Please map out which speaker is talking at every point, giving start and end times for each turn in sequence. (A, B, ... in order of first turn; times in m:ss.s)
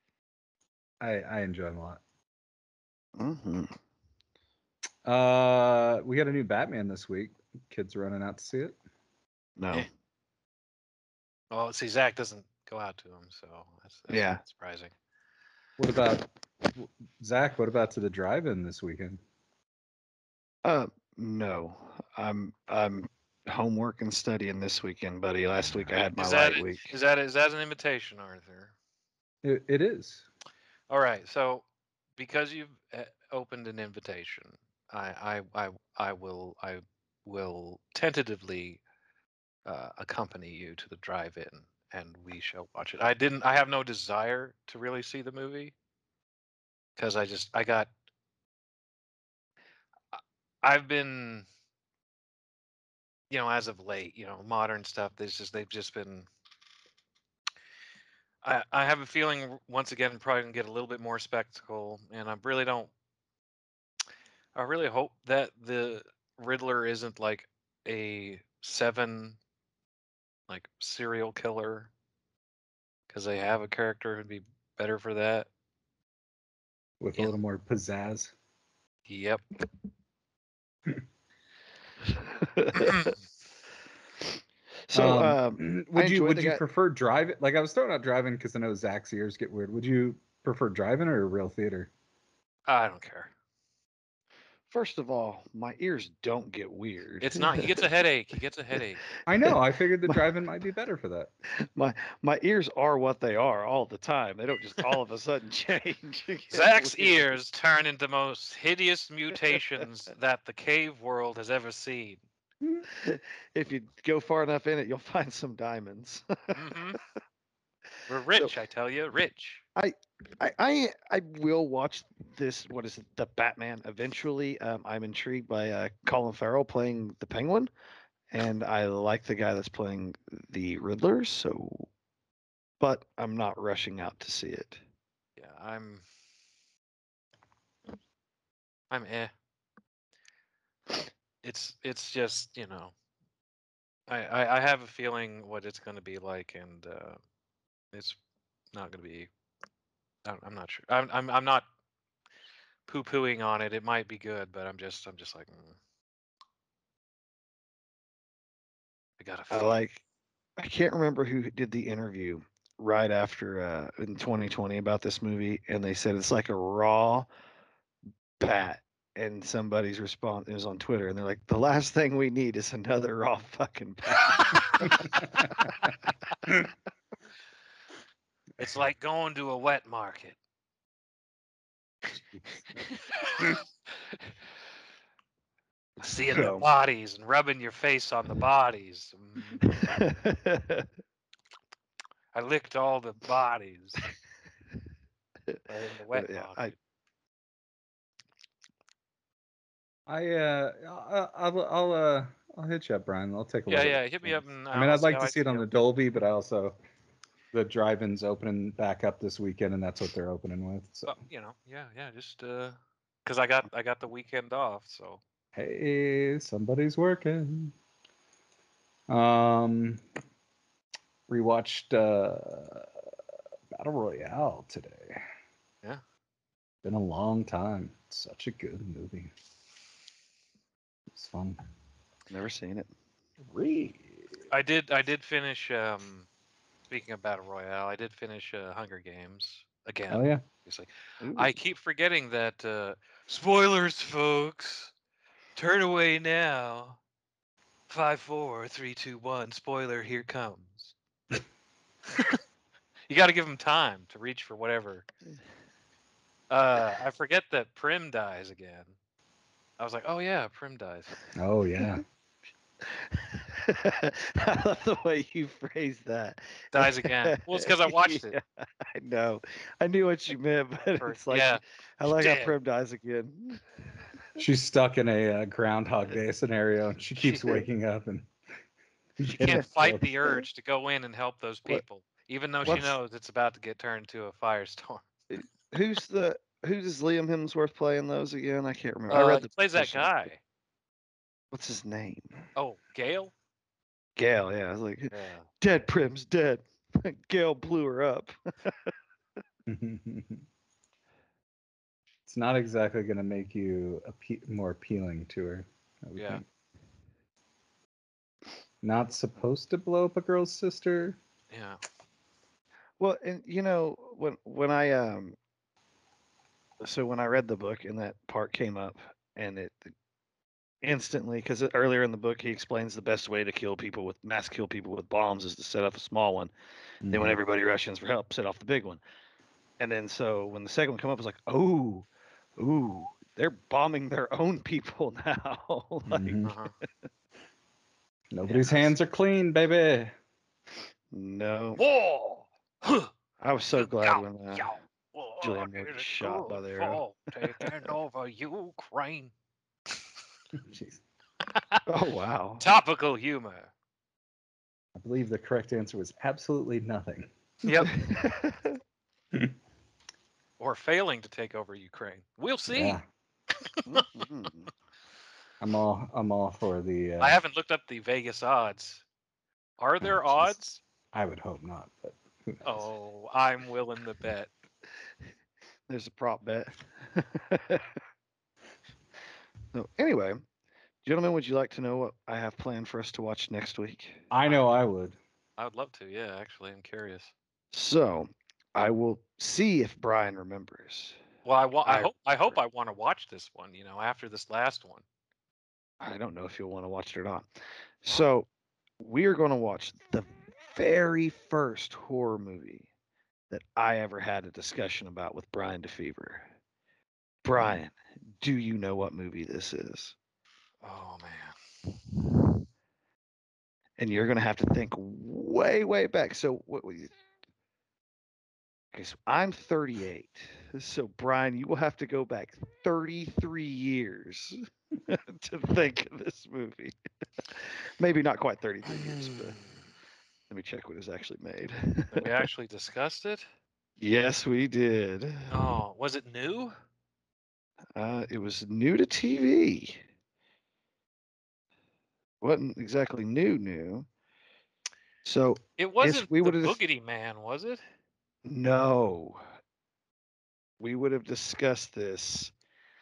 0:01.0-0:02.0 A
0:03.2-0:03.8 B
0:05.0-0:08.8 A
0:09.6-0:09.9 B
0:11.5-0:14.9 C
0:14.1-0:14.4 B
0:15.8-0:19.2 A
0:20.6-0:26.9 B
0:26.1-0:28.7 C
0:29.4-0:30.2 A
0:30.9-0:31.6 C
0:32.2-0:38.8 C
0:39.6-0:45.7 C
0:47.0-0:47.9 C
0:50.1-0:51.5 C
0:53.3-0:56.3 C
0:58.4-1:02.9 C
1:04.5-1:09.4 C
1:10.5-1:11.9 C
1:13.1-1:15.5 C
1:17.0-1:18.3 A
1:19.1-1:19.4 C
1:22.1-1:23.1 B
1:22.8-1:23.1 C
1:24.9-1:26.6 B
1:24.9-1:31.9 A
1:32.7-1:33.3 C
1:34.7-1:37.8 B
1:37.2-1:39.0 C
1:39.2-1:41.3 A
1:41.5-1:47.3 B
1:46.5-1:52.2 C
1:52.9-1:56.6 B
1:56.5-1:57.0 C
1:58.1-1:59.6 C
1:59.8-2:07.7 B
2:08.3-2:11.9 B
2:12.8-2:14.8 B
2:15.4-2:16.0 C
2:18.9-2:19.3 C
2:21.4-2:22.9 C
2:24.1-2:27.2 C
2:28.7-2:29.3 C
2:30.2-2:31.6 C
2:32.9-2:35.7 C
2:39.2-2:39.8 C
2:39.5-2:40.0 B
2:40.6-2:47.3 B
2:48.4-2:55.2 B
2:54.9-2:55.5 A
2:58.6-3:00.4 C
3:02.1-3:02.4 A
3:03.2-3:03.6 C
3:06.0-3:10.0 C
3:06.3-3:06.7 B
3:09.6-3:10.8 B
3:12.3-3:14.0 C
3:15.7-3:16.7 C
3:16.1-3:16.7 B
3:20.1-3:26.7 A
3:23.7-3:25.6 C
3:27.5-3:31.2 A
3:31.1-3:35.2 C
3:35.5-3:37.7 A
3:39.1-3:40.0 A
3:41.3-3:43.1 A
3:43.7-3:45.2 A
3:46.8-3:49.3 A
3:51.1-3:51.6 A
3:52.3-3:52.9 B
3:53.5-3:54.5 A
3:54.5-3:56.3 C
3:56.9-4:04.9 C
4:00.1-4:00.4 A
4:01.2-4:01.5 B
4:05.6-4:07.0 C
4:07.9-4:10.9 C
4:12.1-4:12.4 C
4:13.1-4:15.0 C
4:16.5-4:18.9 C
4:19.8-4:21.2 C
4:21.3-4:22.0 A
4:22.8-4:33.6 B
4:26.7-4:28.4 C
4:30.9-4:32.5 C
4:34.4-4:38.3 A
4:37.2-4:37.6 B
4:39.2-4:40.1 A
4:39.4-4:45.0 C
4:42.6-4:43.0 B
4:45.3-4:50.3 B
4:49.1-4:50.4 C
4:51.5-4:52.4 B
4:52.5-4:53.3 C
4:54.2-4:58.9 B
4:55.1-4:55.5 C
4:59.6-5:00.4 A
5:02.3-5:06.4 A
5:08.8-5:11.2 A
5:11.5-5:11.8 C
5:13.0-5:15.4 B
5:16.8-5:19.9 B
5:20.8-5:26.5 B
5:27.0-5:27.4 A
5:27.1-5:29.0 B
5:29.8-5:36.5 B
5:36.1-5:36.5 A
5:36.4-5:36.7 C
5:38.3-5:40.1 A
5:38.5-5:38.9 C
5:41.1-5:41.8 B
5:41.8-5:43.1 C
5:43.4-5:44.7 B
5:43.7-5:49.3 C
5:45.4-5:47.8 B
5:50.5-5:51.0 A
5:51.5-5:51.8 C
5:51.9-5:52.6 B
5:52.6-5:53.7 C
5:55.0-5:57.3 A
5:57.6-5:57.9 C
5:57.9-5:58.8 B
6:00.6-6:03.0 C
6:02.7-6:03.0 A
6:03.6-6:04.2 C
6:03.9-6:04.7 B
6:05.6-6:07.4 A
6:07.2-6:09.0 C
6:09.8-6:10.8 C
6:10.0-6:10.5 A
6:11.1-6:12.8 A
6:12.6-6:14.5 C
6:15.9-6:18.0 B
6:19.7-6:20.4 B
6:21.0-6:24.3 B
6:24.3-6:25.2 A
6:25.6-6:27.3 C
6:27.7-6:31.2 B
6:31.4-6:35.0 C
6:31.8-6:32.6 B
6:36.0-6:37.4 B
6:38.0-6:38.5 B
6:39.0-6:42.9 B
6:43.5-6:46.5 B
6:47.4-6:50.1 B
6:50.8-6:51.6 C
6:54.0-6:57.1 B
6:58.9-7:09.6 B
7:08.9-7:09.8 C
7:10.5-7:12.4 B
7:12.1-7:13.5 C
7:14.0-7:15.8 B
7:15.5-7:16.7 C
7:18.0-7:20.0 B
7:22.4-7:24.0 B
7:25.2-7:26.8 B
7:25.8-7:27.8 C
7:28.4-7:29.4 B
7:30.8-7:32.5 B